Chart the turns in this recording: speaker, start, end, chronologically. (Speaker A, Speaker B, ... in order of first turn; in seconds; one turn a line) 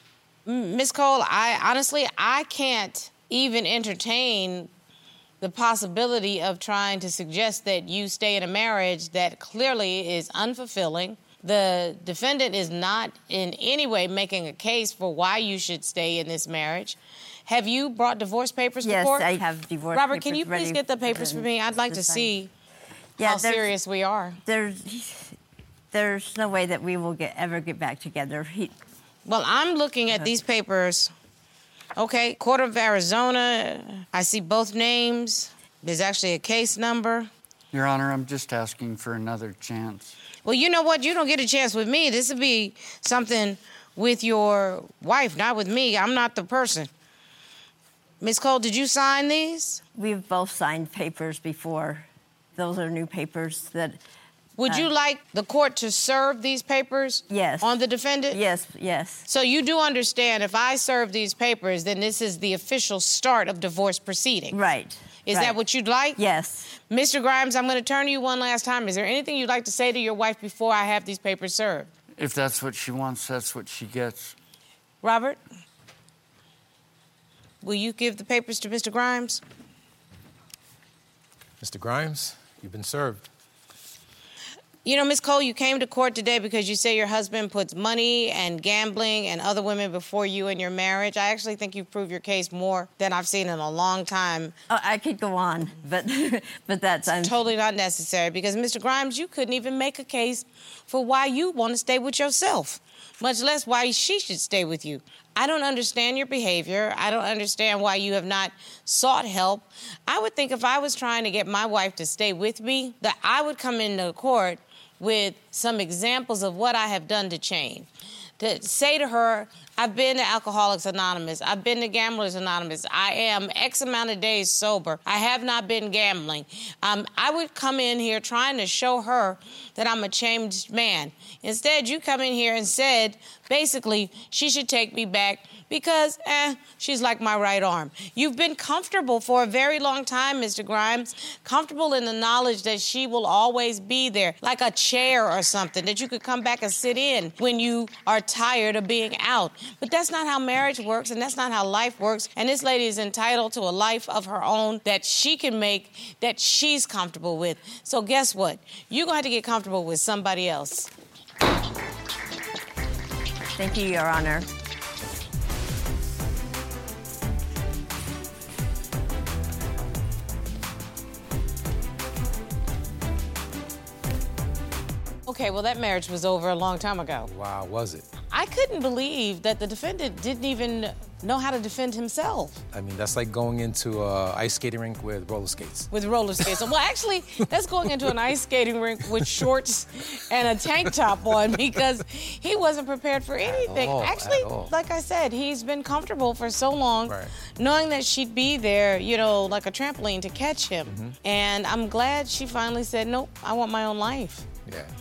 Speaker A: 0.5-4.7
Speaker A: 5.4-19.3
Speaker B: 18.8-22.3
Speaker A: 19.9-22.5
Speaker B: 23.2-23.7
Speaker A: 23.2-24.4
Speaker B: 24.4-25.4
Speaker B: 25.9-28.7
Speaker A: 29.2-31.1
Speaker A: 31.9-37.3
Speaker C: 37.7-40.1
Speaker A: 40.4-46.9
Speaker A: 48.2-49.8
Speaker B: 50.0-52.0
Speaker B: 52.6-54.0
Speaker A: 54.6-58.4
Speaker B: 57.3-57.7
Speaker B: 58.3-59.2
Speaker A: 59.2-64.6
Speaker B: 64.5-65.6
Speaker A: 65.2-66.2
Speaker B: 66.2-66.7
Speaker A: 66.9-71.9
Speaker C: 72.2-74.3
Speaker A: 75.0-75.4
Speaker A: 77.6-79.4
Speaker D: 81.6-83.2
Speaker A: 84.8-94.5
Speaker B: 94.7-97.4
Speaker A: 97.1-117.9
Speaker A: 118.4-160.9
Speaker B: 163.6-164.4
Speaker A: 175.3-177.3
Speaker D: 177.3-178.1
Speaker A: 178.3-182.6
Speaker D: 182.7-185.9
Speaker A: 185.9-204.5
Speaker D: 193.4-194.7
Speaker D: 200.9-201.1
Speaker D: 204.7-204.9